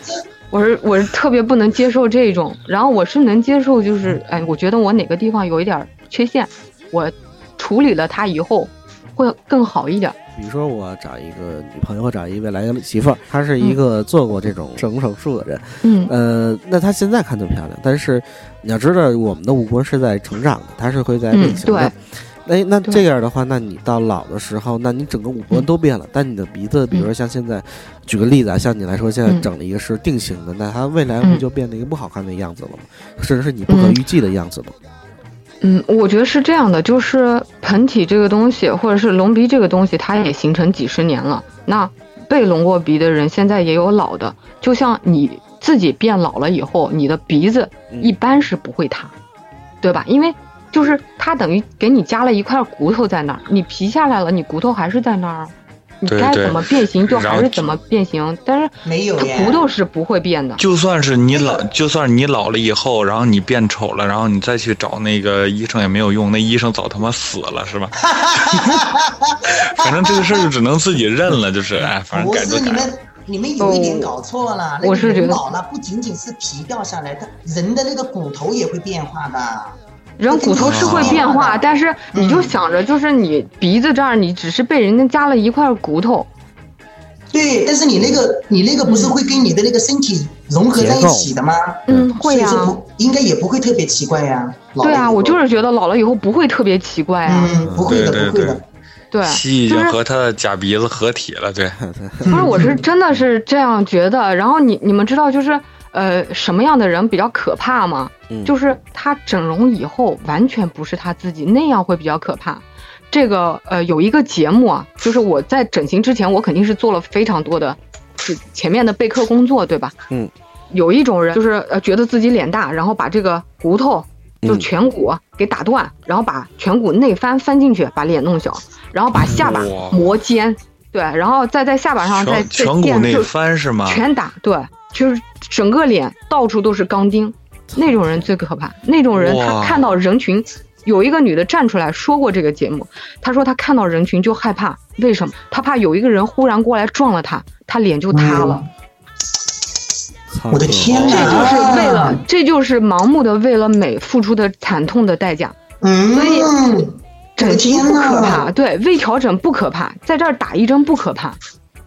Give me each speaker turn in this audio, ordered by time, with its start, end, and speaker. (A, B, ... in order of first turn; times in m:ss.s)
0:00.5-0:10.2 A
0:10.4-0:34.8 B
0:15.8-0:16.1 A
0:21.3-0:21.9 A
0:33.7-0:34.0 A
0:35.6-0:49.1 A
0:47.9-0:48.2 B
0:49.8-1:00.6 A
0:56.1-0:57.8 C
0:58.8-0:59.7 D
1:00.6-1:07.9 C
1:01.3-1:01.7 D
1:08.0-1:10.5 D
1:08.5-1:08.8 C
1:09.5-1:12.9 C
1:12.1-1:19.8 D
1:13.6-1:14.2 A
1:14.8-1:15.4 A
1:20.2-1:26.3 A
1:20.3-1:22.5 D
1:20.6-1:21.2 C
1:27.3-1:35.4 D
1:28.9-1:29.2 A
1:30.7-1:31.3 B
1:31.9-1:32.8 A
1:34.8-1:37.6 A
1:37.3-1:38.6 D
1:37.6-1:38.1 B
1:37.8-1:38.6 C
1:39.1-1:40.0 A
1:39.2-1:41.8 C
1:41.8-1:42.6 B
1:42.3-1:42.8 D
1:42.3-2:00.0 A
1:48.3-1:48.5 B
2:00.7-2:13.3 A
2:04.4-2:04.7 B
2:09.3-2:10.0 C
2:12.0-2:14.0 C
2:13.8-2:28.6 A
2:17.7-2:18.3 B
2:19.1-2:19.9 C
2:28.1-2:28.7 D
2:30.3-2:31.4 B
2:30.5-2:32.2 D
2:31.0-2:35.6 A
2:35.8-2:38.5 D
2:36.1-2:36.5 A
2:37.4-2:41.4 A